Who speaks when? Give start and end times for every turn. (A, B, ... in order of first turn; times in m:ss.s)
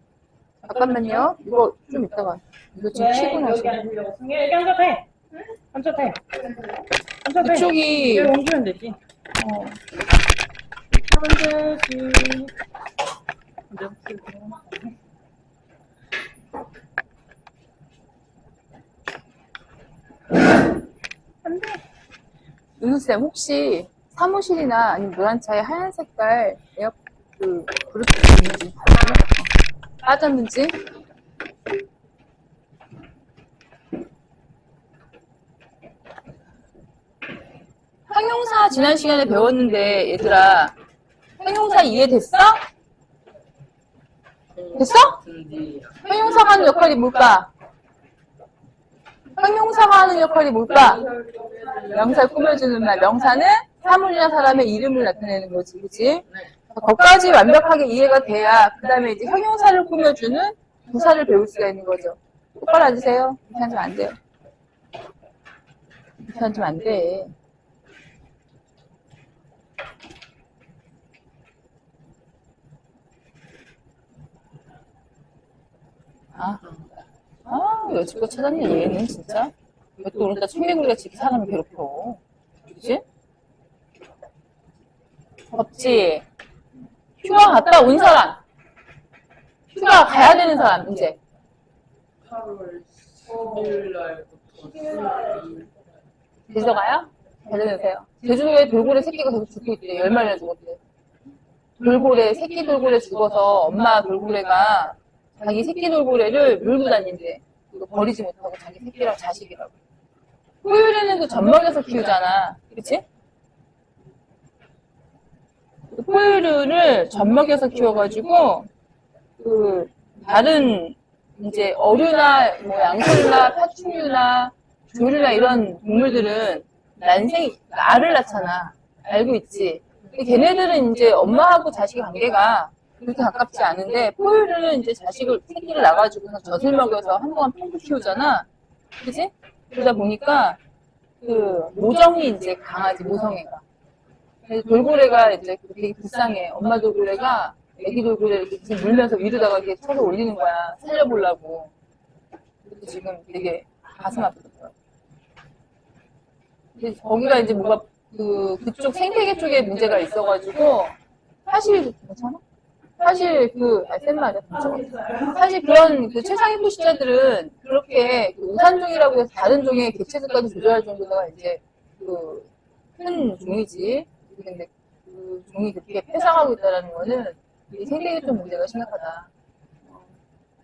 0:00.6-0:03.8 A
0:02.9-0:05.1 B
0:05.7-0:06.6 B
0:07.2-0:09.0 B
0:07.4-0:08.3 A
0:09.4-0:09.8 A
0:11.0-0:12.5 B
0:13.7-0:14.9 B
0:21.4-0:21.8 A
0:22.8-0:29.3 A
0:30.0-0:30.8 A
0:38.1-0:40.7 A
0:41.4-0:42.6 A
0:44.6-0:46.0 C
0:44.8-0:45.2 A
0:46.0-0:47.5 A
0:49.4-0:51.0 A
0:50.9-0:52.2 C
0:51.9-1:04.2 A
1:06.2-1:07.3 A
1:16.4-1:16.8 A
1:17.5-1:23.0 A
1:25.5-1:26.2 A
1:27.2-1:28.4 A
1:29.7-1:31.2 A
1:32.2-1:35.7 C
1:36.5-1:40.8 A
1:41.8-1:49.8 A
1:50.6-1:53.0 A
1:55.9-1:58.7 A
1:59.4-2:18.5 A
2:19.0-2:20.6 A
2:21.2-2:23.6 A
2:24.4-2:31.7 A
2:32.6-2:34.7 A
2:36.8-2:40.9 A
2:41.5-2:42.4 A
2:43.0-2:59.3 A